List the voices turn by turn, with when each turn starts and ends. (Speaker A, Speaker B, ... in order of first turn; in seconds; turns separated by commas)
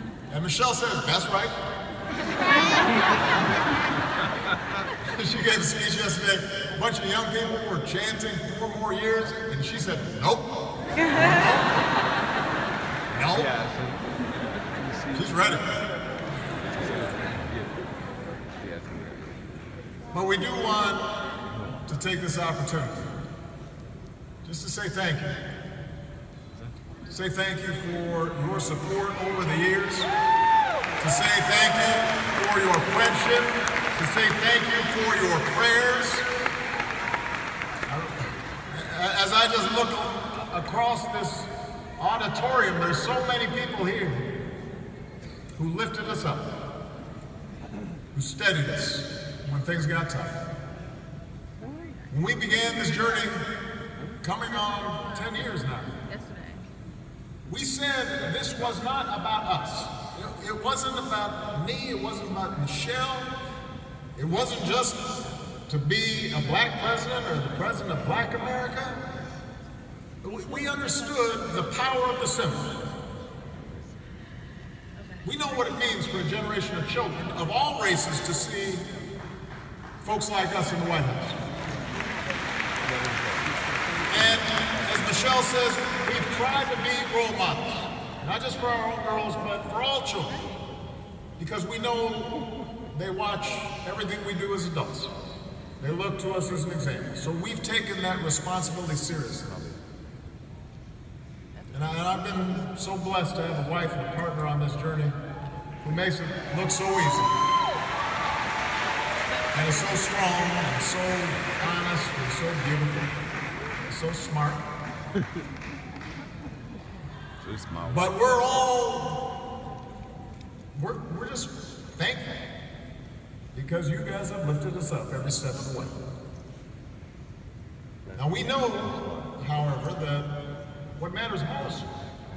Speaker A: 0.3-1.5, Speaker A: 5.2-10.5, Speaker A: 11.1-11.7, Speaker A: 13.1-13.6, Speaker A: 15.1-15.7, Speaker A: 20.1-21.1, Speaker A: 21.9-23.1, Speaker A: 24.4-25.3, Speaker A: 27.1-30.1, Speaker A: 31.0-36.3, Speaker A: 37.9-44.3, Speaker A: 45.6-46.5, Speaker A: 48.1-50.4, Speaker A: 52.1-53.4, Speaker A: 54.2-55.9, Speaker A: 57.5-63.3, Speaker A: 64.2-65.0, Speaker A: 65.7-69.0, Speaker A: 70.2-72.8, Speaker A: 75.2-78.9, Speaker A: 80.0-81.4, Speaker A: 84.1-90.4, Speaker A: 91.4-92.4, Speaker A: 92.9-95.1, Speaker A: 95.8-99.6, Speaker A: 101.7-105.2, Speaker A: 105.8-107.3, Speaker A: 109.5-113.2, Speaker A: 113.9-114.6, Speaker A: 117.8-119.3, Speaker A: 120.8-122.3, Speaker A: 123.5-125.9, Speaker A: 128.1-130.3, Speaker A: 131.0-131.9